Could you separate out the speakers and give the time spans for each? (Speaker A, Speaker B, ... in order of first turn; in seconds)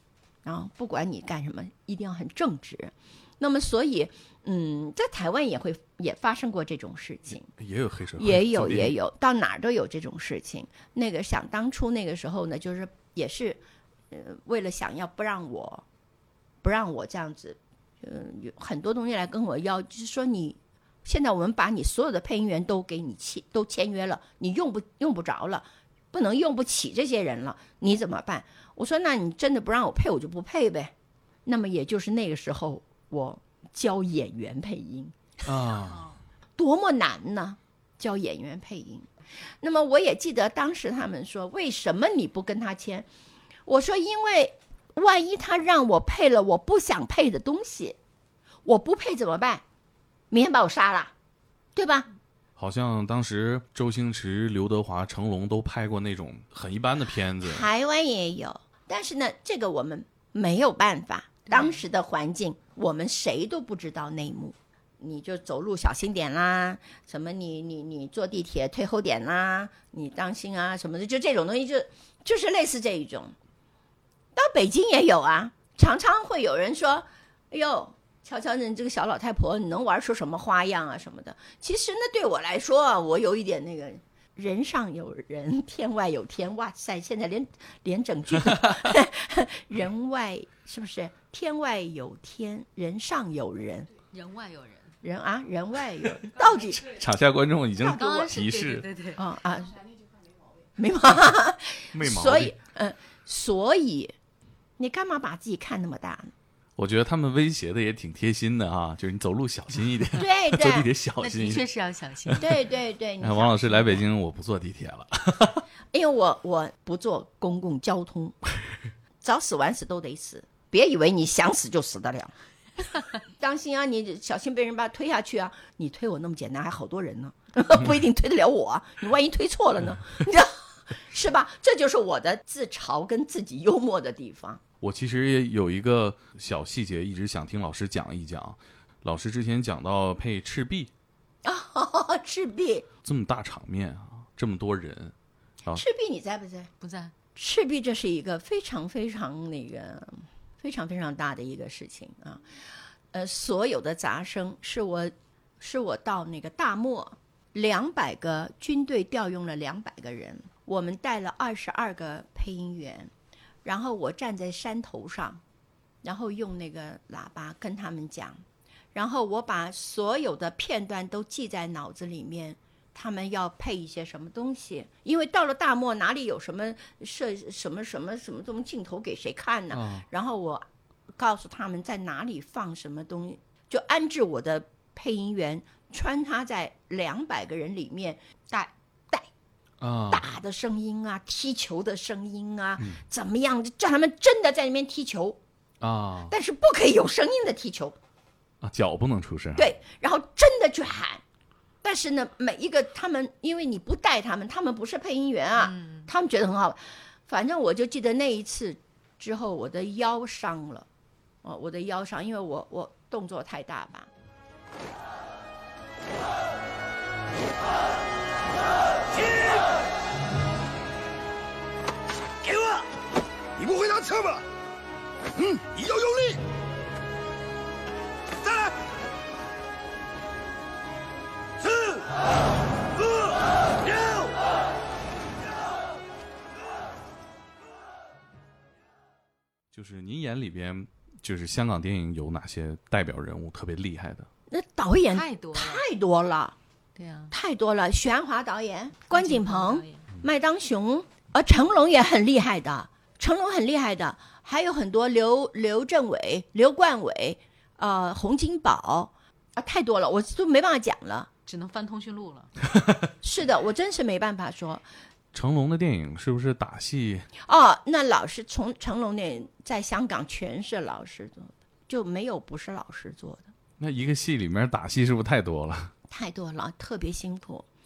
Speaker A: 0.4-7.5, 8.2-13.6, 14.1-15.8, 16.6-30.9, 31.5-35.2, 36.6-39.1, 39.6-43.1, 43.7-48.0, 48.6-49.6, 50.3-51.1, 51.8-52.1, 57.4-73.3, 74.3-93.9, 95.0-96.9, 99.2-99.9, 100.8-104.1, 104.8-106.3, 110.2-110.9, 112.4-114.0, 115.9-118.4, 119.2-122.3, 123.0-134.6, 141.4-142.9, 145.7-146.7, 147.3-152.4, 153.1-163.1, 163.6-165.4, 166.0-168.4, 168.9-180.7, 181.2-189.3, 190.1-195.4, 196.3-198.0, 199.6-201.2, 201.8-210.9, 211.4-214.1, 244.5-246.6, 247.3-261.3, 263.2-264.8, 267.5-273.5, 276.1-277.7
Speaker B: 7.6-8.9, 35.5-36.1, 52.6-57.7, 88.4-88.9, 96.8-98.9, 101.9-102.5, 106.8-111.7, 113.2-115.6, 134.8-140.9, 143.0-145.8, 179.7-180.1, 189.8-190.3, 195.8-196.3, 198.6-199.8, 239.7-244.3, 265.3-267.3, 273.8-275.9
Speaker C: 61.5-61.8, 94.1-94.9, 97.9-99.2, 111.2-112.6, 146.8-147.1, 205.6-206.1, 245.1-245.8, 247.0-247.3, 249.1-250.1, 261.5-262.5
Speaker D: 219.2-219.5, 222.4-222.8, 223.6-224.4, 225.4-226.4, 228.4-228.7, 231.7-231.9